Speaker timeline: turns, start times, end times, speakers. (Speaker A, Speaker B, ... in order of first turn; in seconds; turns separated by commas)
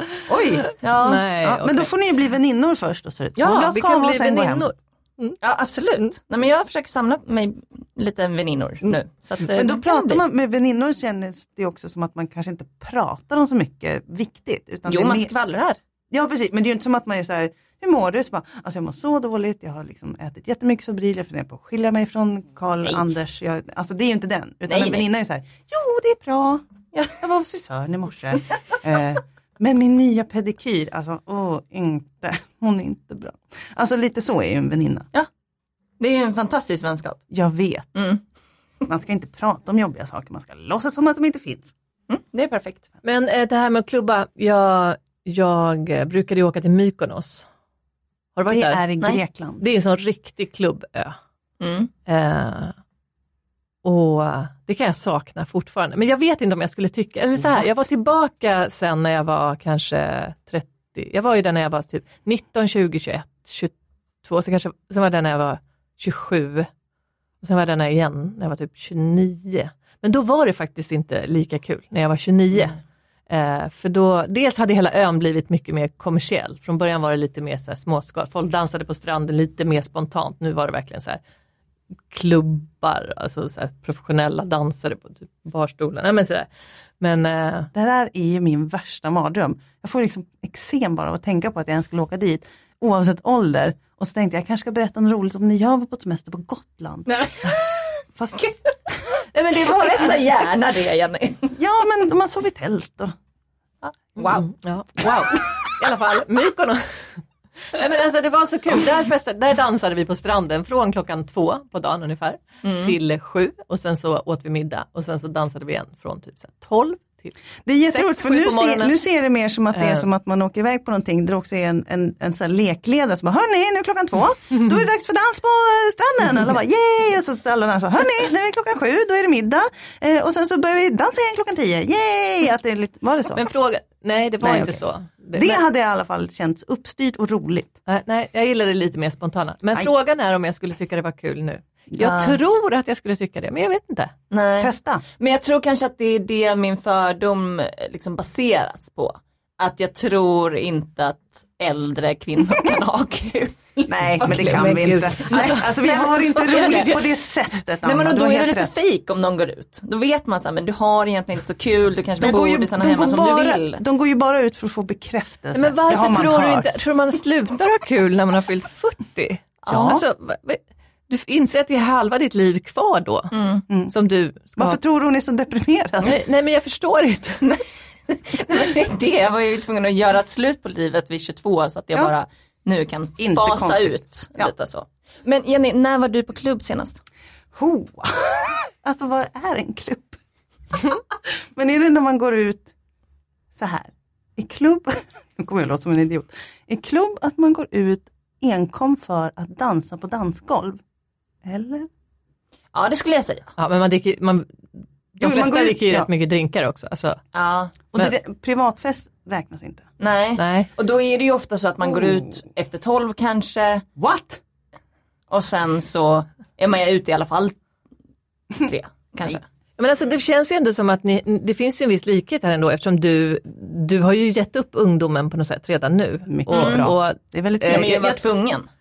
Speaker A: 0.2-1.9, Speaker B: 0.3-0.7, Speaker C: 0.8-1.2, Speaker B: 1.4-4.7, Speaker A: 3.4-5.4, Speaker C: 5.4-10.2, Speaker B: 9.5-15.3, Speaker C: 14.9-15.8, Speaker B: 16.1-26.6, Speaker C: 24.7-25.1, Speaker C: 26.9-27.2, Speaker B: 27.2-35.1, Speaker C: 36.0-37.2, Speaker B: 37.3-38.0, Speaker C: 38.0-38.2, Speaker B: 38.9-41.7, Speaker C: 42.1-42.9, Speaker A: 43.0-47.5, Speaker A: 48.4-48.8, Speaker B: 48.5-49.6, Speaker A: 49.6-51.2, Speaker C: 51.6-51.9, Speaker A: 52.1-52.7, Speaker A: 53.8-66.7, Speaker A: 67.4-81.2, Speaker A: 82.1-86.5, Speaker A: 87.0-87.7, Speaker B: 87.7-97.1, Speaker C: 97.1-98.0, Speaker B: 98.2-98.9, Speaker A: 99.3-100.3, Speaker C: 99.6-101.6, Speaker B: 101.6-103.1, Speaker C: 103.8-104.5, Speaker A: 104.2-117.3, Speaker C: 112.6-113.0, Speaker B: 117.7-133.4, Speaker A: 117.9-119.0, Speaker A: 119.7-120.1, Speaker A: 133.4-135.6, Speaker B: 134.4-134.8, Speaker B: 135.3-137.8, Speaker A: 137.9-144.1, Speaker C: 142.0-142.4, Speaker C: 144.3-155.6, Speaker B: 144.6-145.0, Speaker B: 153.9-158.7, Speaker A: 154.4-157.1, Speaker C: 157.8-163.8, Speaker B: 162.2-166.7, Speaker A: 165.5-173.3, Speaker C: 169.7-169.9, Speaker B: 169.7-170.0, Speaker C: 173.3-173.6, Speaker A: 173.9-174.8, Speaker B: 174.6-176.2, Speaker A: 176.0-177.4, Speaker C: 177.4-187.0, Speaker B: 183.2-184.5, Speaker B: 187.5-190.2, Speaker B: 190.7-192.7, Speaker B: 193.6-200.8, Speaker B: 201.4-201.9, Speaker C: 202.7-203.5, Speaker A: 203.6-207.2, Speaker B: 205.2-206.1, Speaker C: 207.3-207.8, Speaker B: 207.9-209.9, Speaker C: 210.0-213.8, Speaker A: 210.4-210.7, Speaker B: 214.0-214.4, Speaker C: 215.3-217.6, Speaker C: 218.6-219.4, Speaker A: 219.8-228.2, Speaker B: 226.3-228.0, Speaker C: 226.5-226.9, Speaker C: 227.7-228.7